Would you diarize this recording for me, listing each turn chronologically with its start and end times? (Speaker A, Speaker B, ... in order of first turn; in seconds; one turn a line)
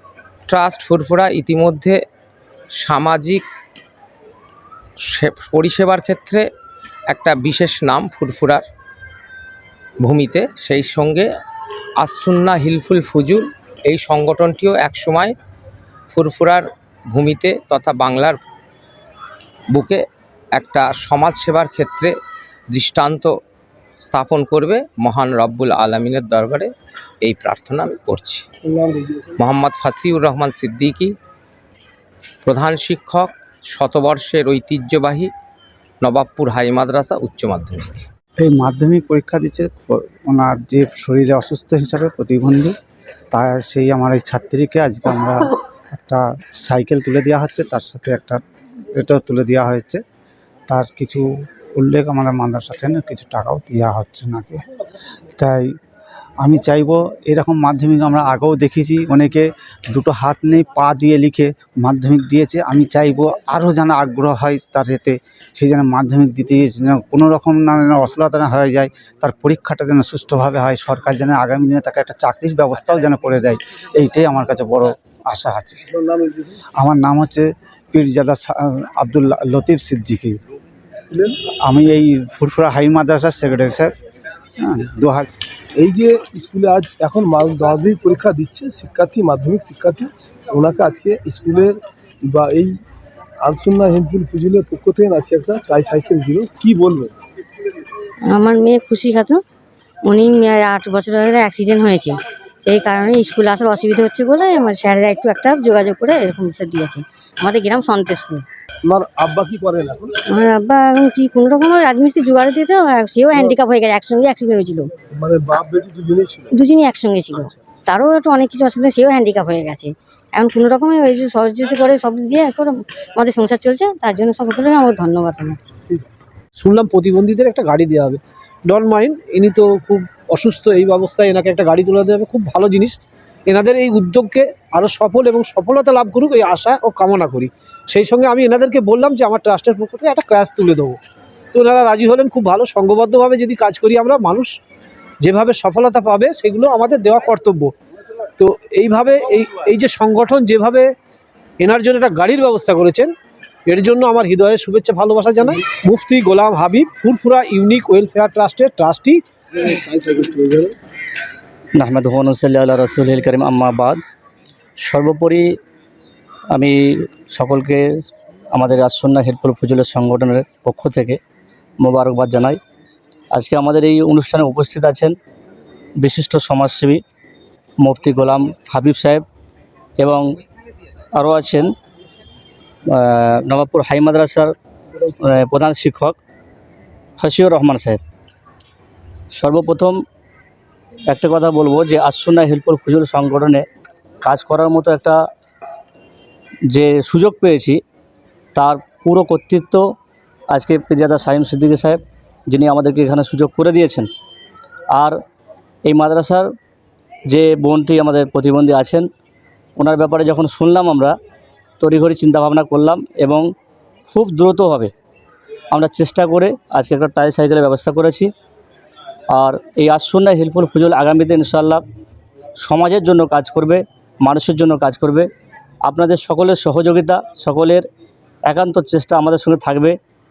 Speaker A: 0.5-2.0
Speaker A: 2.8-3.4
Speaker A: 5.1-6.4
Speaker A: 7.1-8.6
Speaker A: 10.0-11.3
Speaker A: 12.0-15.3
Speaker A: 16.1-18.4
Speaker A: 19.7-20.0
Speaker A: 20.5-22.1
Speaker A: 22.7-23.3
Speaker A: 24.1-26.7
Speaker A: 27.2-28.4
Speaker B: 28.6-29.3
Speaker A: 29.4-31.1
Speaker A: 32.4-35.3
Speaker A: 36.0-38.0
Speaker C: 38.4-42.7
Speaker C: 43.3-48.4
Speaker C: 48.9-50.0
Speaker C: 50.7-51.2
Speaker C: 51.7-54.6
Speaker C: 55.4-55.6
Speaker C: 56.4-75.9
Speaker B: 75.9-76.6
Speaker C: 76.8-80.4
Speaker B: 81.1-81.3
Speaker C: 81.6-83.9
Speaker C: 84.5-85.3
Speaker B: 85.8-92.8
Speaker B: 93.4-97.2
Speaker D: 98.3-99.4
Speaker D: 100.0-108.4
Speaker B: 108.8-110.1
Speaker D: 110.3-114.9
Speaker B: 115.1-116.5
Speaker D: 116.5-125.6
Speaker E: 126.5-141.0
Speaker E: 141.5-144.5
Speaker E: 145.2-147.7
Speaker E: 148.4-150.9
Speaker E: 151.6-153.1
Speaker E: 153.7-159.2
Speaker B: 159.7-160.7
Speaker F: 161.7-164.0
Speaker F: 164.8-165.6
Speaker F: 166.5-167.9
Speaker F: 168.5-171.2
Speaker F: 171.8-172.6
Speaker F: 173.3-175.1
Speaker F: 176.0-177.0
Speaker F: 177.8-179.2
Speaker F: 180.0-180.3
Speaker F: 181.1-181.7
Speaker F: 182.9-184.5
Speaker B: 184.9-185.4
Speaker F: 185.2-186.2
Speaker F: 187.2-188.0
Speaker F: 189.3-190.0
Speaker F: 191.1-193.6
Speaker F: 194.2-195.2
Speaker F: 196.7-197.8
Speaker F: 198.5-199.9
Speaker F: 200.5-204.1
Speaker F: 205.8-206.5
Speaker F: 207.3-209.1
Speaker F: 209.8-211.2
Speaker F: 211.8-213.5
Speaker F: 214.1-214.9
Speaker F: 215.7-218.3
Speaker F: 219.3-221.8
Speaker F: 222.6-225.3
Speaker F: 225.8-227.8
Speaker F: 228.4-230.0